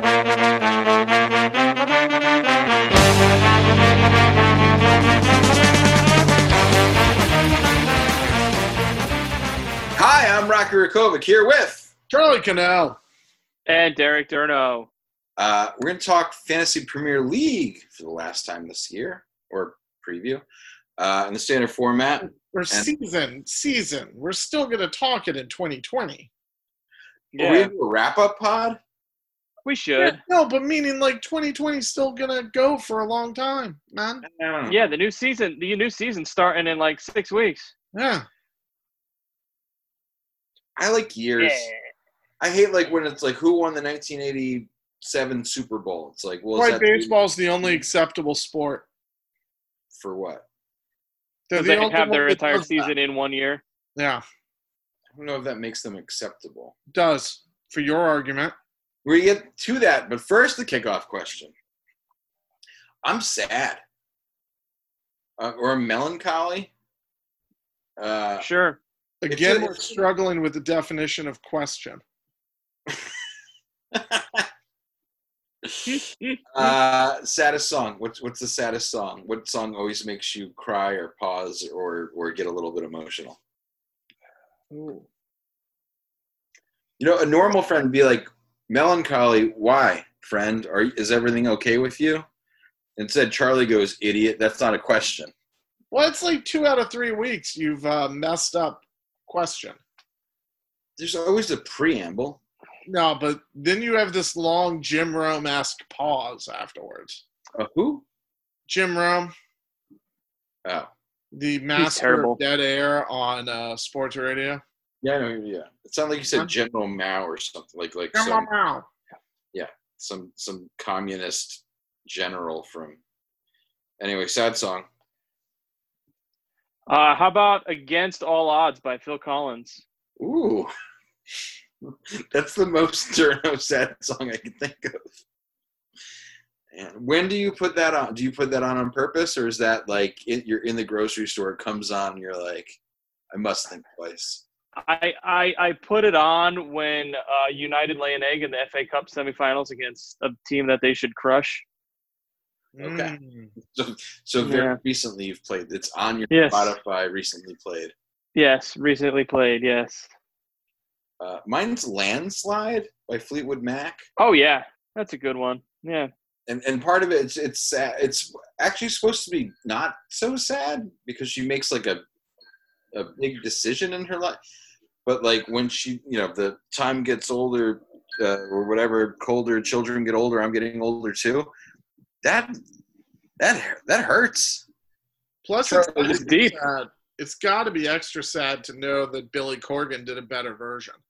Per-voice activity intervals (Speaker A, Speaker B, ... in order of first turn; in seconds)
Speaker A: 9.9-11.9, 15.4-20.4, 21.0-22.9, 27.4-28.8, 34.2-34.8, 40.8-41.7, 42.4-47.1, 49.9-50.4, 55.1-56.7, 59.0-61.5, 63.0-63.8, 65.4-66.7, 68.0-68.5, 69.3-70.0, 73.9-74.5, 76.5-83.4, 87.0-92.2, 93.0-95.3, 101.0-102.4, 107.5-108.0, 110.6-110.9, 115.0-118.5, 119.5-123.0, 124.0-124.9, 130.2-130.7, 131.8-135.1, 136.7-142.8, 143.3-144.4, 152.8-157.9, 161.2-164.0, 166.5-172.0, 172.9-174.4, 175.1-181.5, 182.2-182.5, 183.4-184.6
Speaker B: 12.1-13.0, 22.5-26.3, 30.0-34.2, 37.9-38.3, 46.5-48.9, 51.5-52.9, 54.0-54.2, 56.9-58.5, 69.2-72.0, 75.9-76.4, 84.7-85.0, 95.9-99.8, 102.9-107.2, 108.7-109.3, 111.3-114.6, 118.1-118.8, 152.7-153.5, 185.4-191.0
Speaker C: 13.7-14.9, 27.3-27.7, 29.6-30.2, 34.7-37.7, 41.4-41.7, 51.5-53.6, 68.4-68.8, 111.7-112.4, 126.9-129.8, 144.8-151.6, 154.4-154.8, 156.3-156.8, 158.3-160.1, 164.2-166.1, 185.7-186.6